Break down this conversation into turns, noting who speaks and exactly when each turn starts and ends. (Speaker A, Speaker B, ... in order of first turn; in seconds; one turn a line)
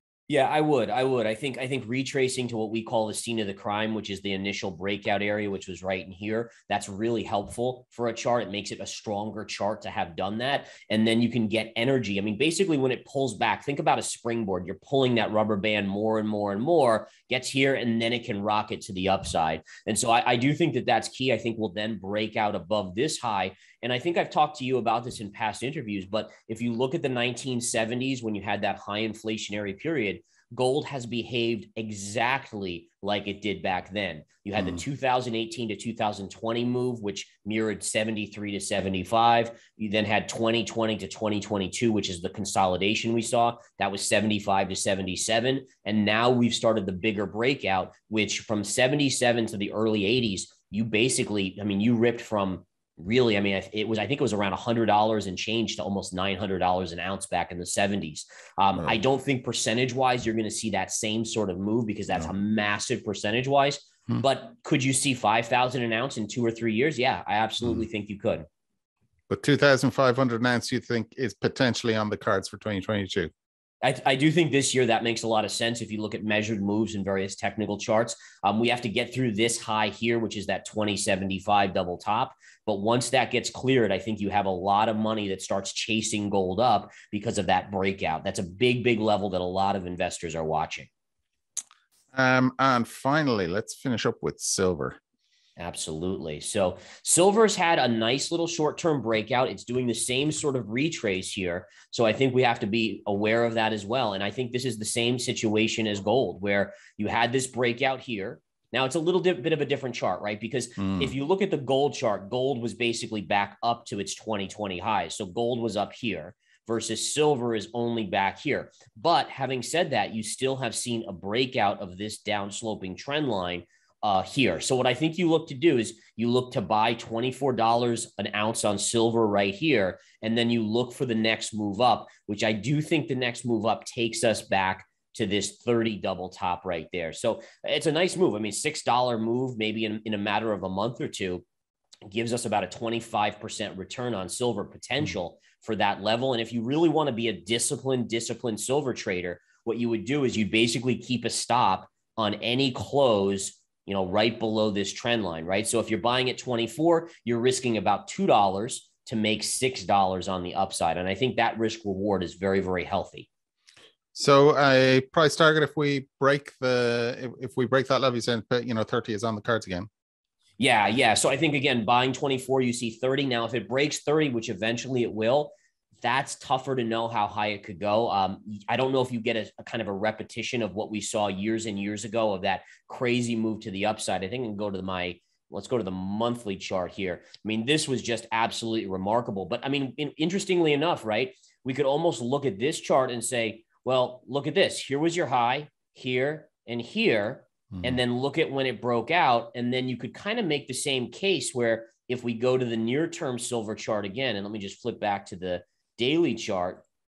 Speaker A: 0.3-68.5
Speaker B: 69.3-73.3
Speaker A: 73.8-90.9
Speaker B: 92.1-95.0
Speaker A: 95.6-141.4
Speaker B: 110.8-111.1
Speaker A: 142.1-163.3
Speaker B: 164.1-169.9
Speaker A: 170.6-206.8